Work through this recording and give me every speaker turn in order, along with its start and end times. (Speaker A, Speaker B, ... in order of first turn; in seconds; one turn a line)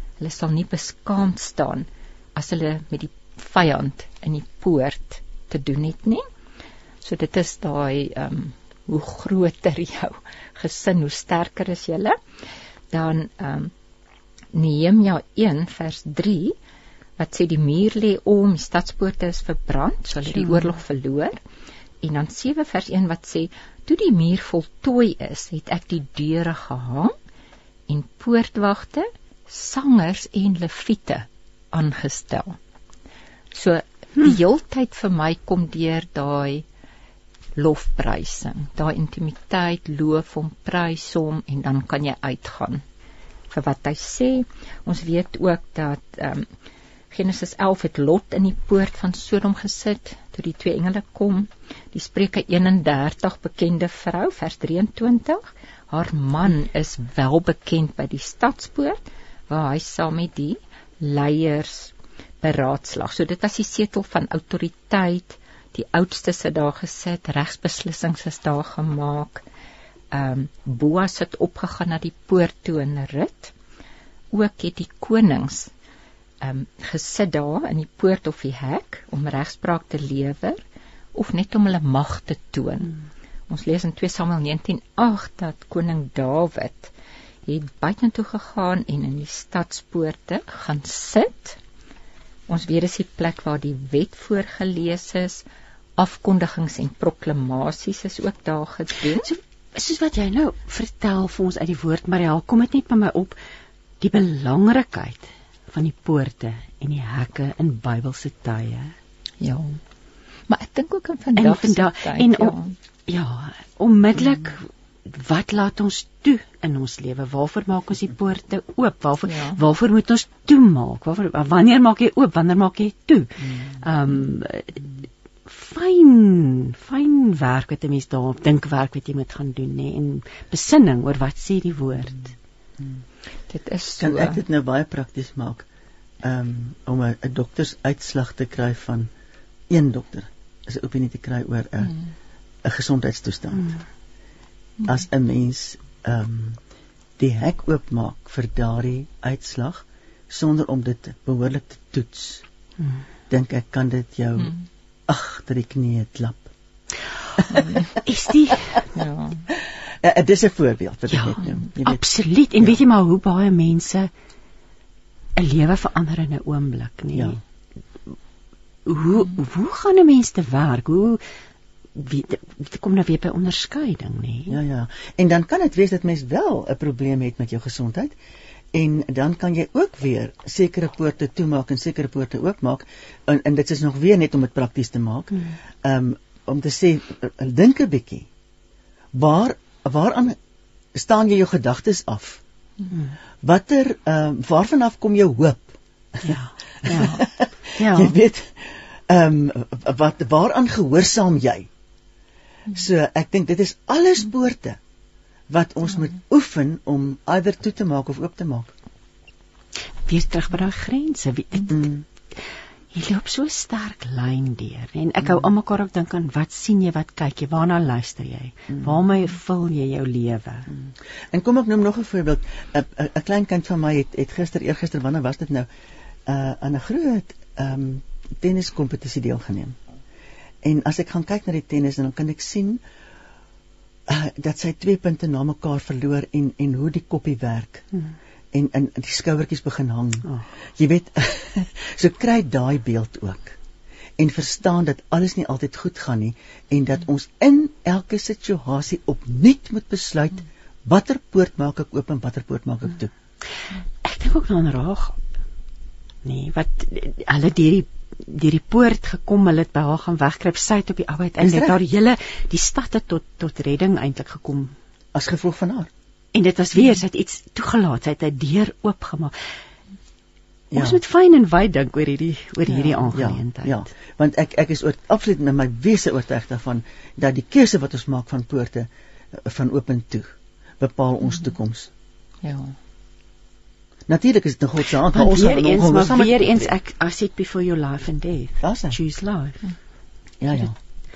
Speaker A: 0.2-6.2
Speaker A: 7.0-12.2
Speaker A: 12.9-13.7
Speaker A: 14.5-16.6
Speaker A: 17.2-21.4
Speaker A: 22.0-27.1
Speaker A: 27.9-32.6
Speaker A: 33.5-36.6
Speaker A: 37.5-42.8
Speaker A: 43.5-46.5
Speaker A: 47.1-69.4
Speaker A: 70.1-73.5
Speaker A: 74.3-75.7
Speaker A: 76.4-80.6
Speaker A: 81.1-82.9
Speaker A: 83.5-86.9
Speaker A: 87.5-91.6
Speaker A: 92.5-95.4
Speaker A: 96.0-99.3
Speaker B: 99.2-103.4
Speaker B: 104.0-108.9
Speaker A: 109.4-109.8
Speaker A: 110.5-112.7
Speaker B: 111.4-112.5
Speaker B: 113.1-124.9
Speaker A: 119.3-119.6
Speaker B: 125.5-132.3
Speaker A: 133.5-134.4
Speaker C: 134.0-135.7
Speaker C: 136.2-139.1
Speaker C: 139.7-141.9
Speaker C: 142.6-143.8
Speaker C: 144.8-146.6
Speaker C: 147.2-152.4
Speaker C: 153.3-154.5
Speaker C: 155.1-156.5
Speaker C: 157.6-157.8
Speaker B: 158.0-158.8
Speaker A: 158.9-159.4
Speaker C: 159.6-162.8
Speaker B: 161.1-164.1
Speaker B: 165.3-167.4
Speaker B: 168.8-171.2
Speaker B: 171.9-174.6
Speaker C: 174.5-178.2
Speaker C: 178.7-188.3
Speaker C: 189.1-190.4
Speaker C: 190.9-192.4
Speaker C: 193.4-201.7
Speaker B: 196.2-197.2
Speaker B: 197.8-198.1
Speaker C: 202.7-204.8
Speaker C: 205.5-208.7
Speaker B: 210.1-211.8
Speaker C: 211.7-212.0
Speaker B: 212.9-220.7
Speaker C: 220.7-225.7
Speaker C: 226.2-229.8
Speaker C: 230.6-232.8
Speaker C: 234.1-237.9
Speaker C: 238.5-243.6
Speaker C: 244.2-253.1
Speaker B: 254.0-255.2
Speaker B: 256.2-264.7
Speaker C: 261.4-261.8
Speaker C: 265.1-265.9
Speaker B: 266.3-269.3
Speaker C: 270.7-271.0
Speaker B: 270.7-273.9
Speaker C: 273.1-281.9
Speaker A: 282.4-282.8
Speaker C: 284.1-286.7
Speaker B: 285.1-289.6
Speaker C: 288.6-289.0
Speaker C: 290.4-290.7